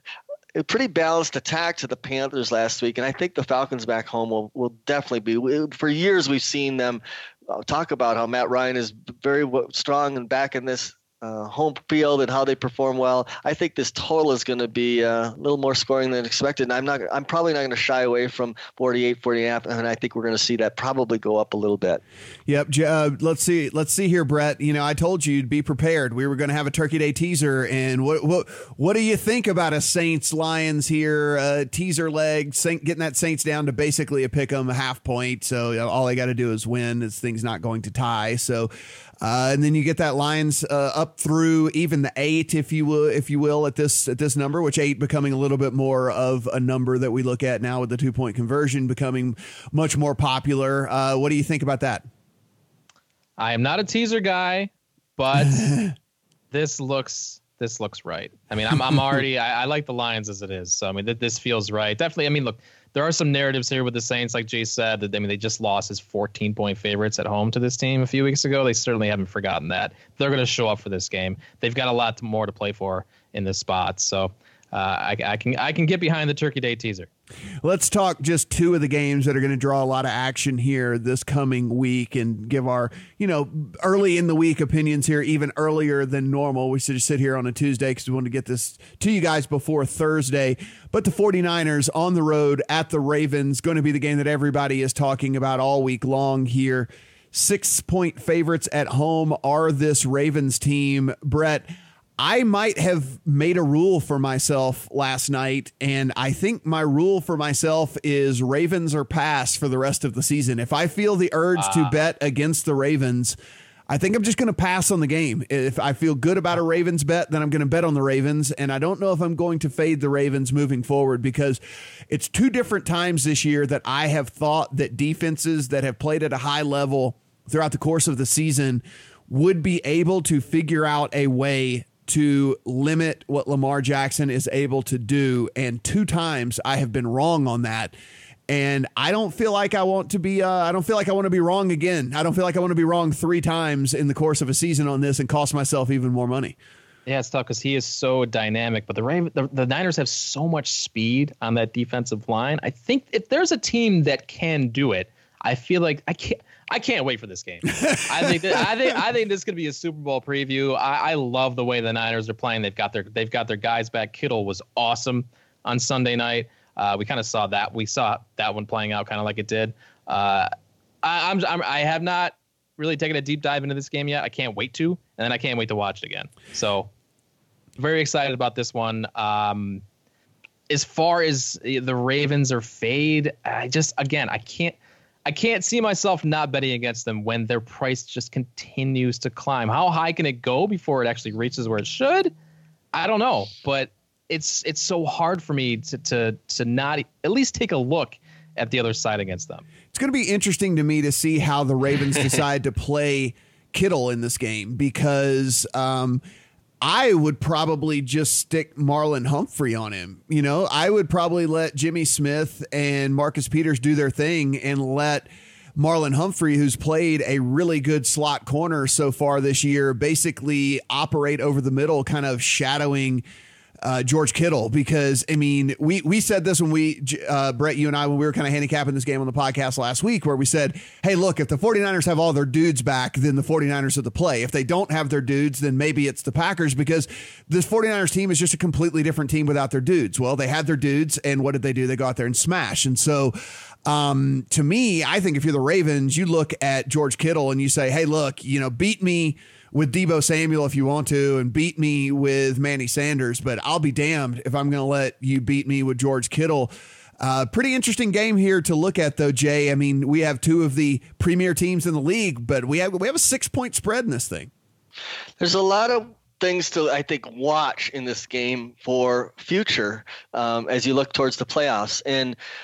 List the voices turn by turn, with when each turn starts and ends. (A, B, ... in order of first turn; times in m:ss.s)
0:00.6-0:22.0 A
0:22.5-0:38.7 B
0:39.2-0:52.0 B
0:53.4-0:55.8 C
0:55.4-0:55.9 B
0:56.5-1:17.1 C
1:17.6-1:41.7 B
1:42.2-1:53.4 B
1:51.6-1:52.0 C
1:53.9-2:17.9 B
2:18.5-2:26.6 B
2:27.1-2:50.5 C
2:37.9-2:38.6 B
2:51.0-2:56.9 C
2:57.8-2:59.8 C
3:00.7-3:12.3 C
3:12.9-3:19.6 C
3:19.9-3:26.2 B
3:26.8-3:43.2 B
3:43.8-4:24.5 B
4:25.4-4:32.4 A